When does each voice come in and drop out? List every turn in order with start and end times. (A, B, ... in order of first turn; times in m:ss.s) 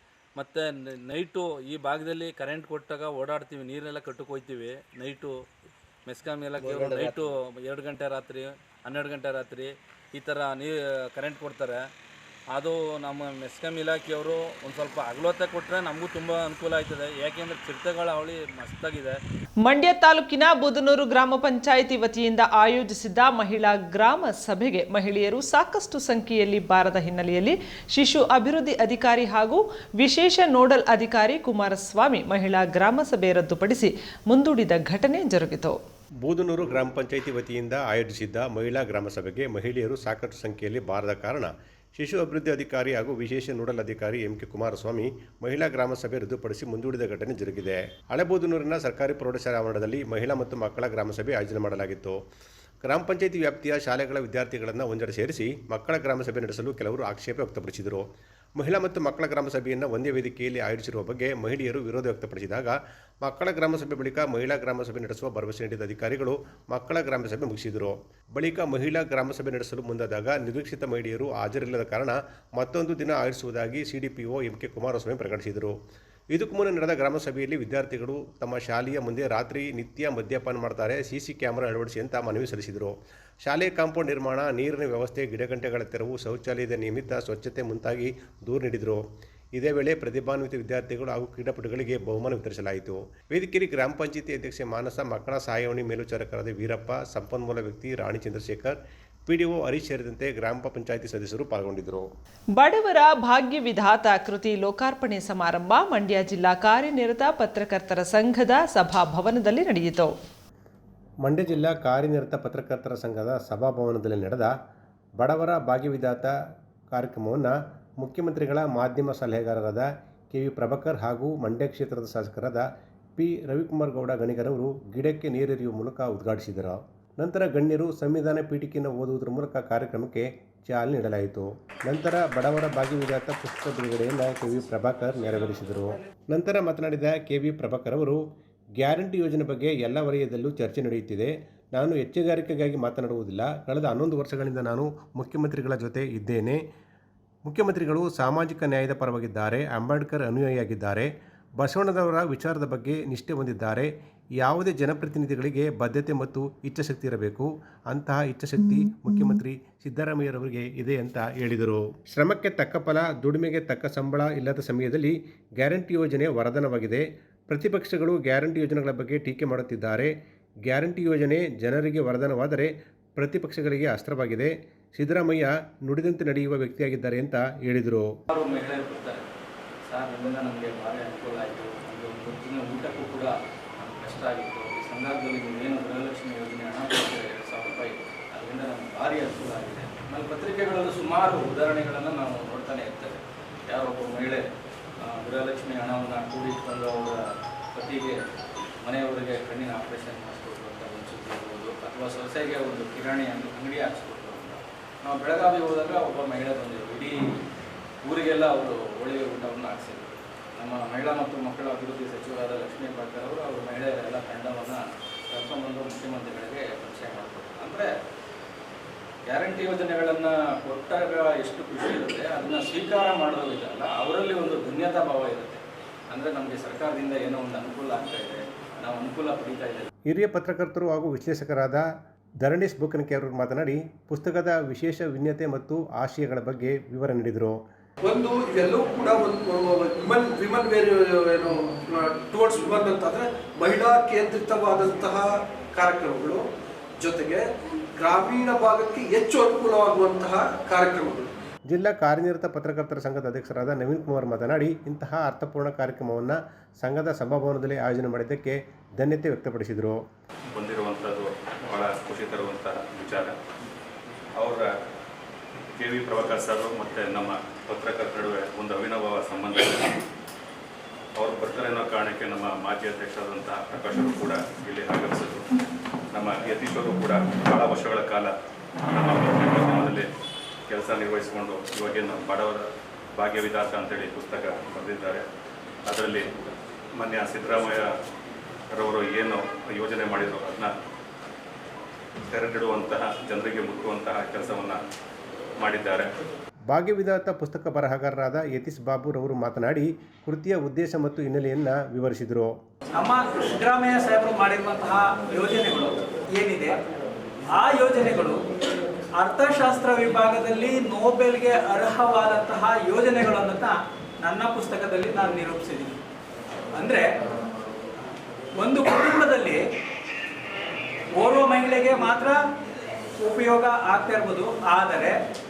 0:00.4-0:05.3 A
0:06.1-0:11.8 A
0:12.5-0:19.2 A
0:19.6-0:35.8 B
0:36.2-0:52.2 C
0:52.8-1:15.7 C
1:16.3-1:42.1 C
1:42.6-1:50.1 B
1:51.2-1:54.6 C
1:55.2-1:56.4 C
1:56.9-2:18.2 C
2:18.8-2:26.6 C
2:27.4-2:50.1 C
2:50.6-2:58.1 C
2:58.3-2:59.2 D
2:59.9-3:14.4 D
3:15.0-3:17.2 D
3:17.7-3:18.2 D
3:18.8-3:27.3 D
3:28.0-3:37.9 D
3:39.3-3:49.9 D
3:50.1-3:51.8 C
3:52.4-3:57.6 C
3:58.0-4:06.5 E
4:07.0-4:07.4 E
4:08.0-4:11.3 E
4:11.7-4:20.0 C
4:20.5-4:23.3 F
4:24.4-4:24.7 F
4:25.8-4:29.9 F
4:31.2-4:35.5 F
4:36.1-4:38.3 F
4:38.9-4:40.1 F
4:40.7-4:42.6 F
4:43.2-4:45.2 F
4:45.9-4:46.3 F
4:47.0-4:47.9 F
4:48.7-4:50.7 F
4:52.3-4:54.8 F
4:55.6-4:56.1 F
4:56.7-5:02.5 C
5:02.9-5:06.8 G
5:07.5-5:08.4 G
5:09.2-5:16.0 G
5:16.8-5:17.1 G
5:18.6-5:19.6 G
5:21.2-5:22.4 G
5:23.2-5:25.2 G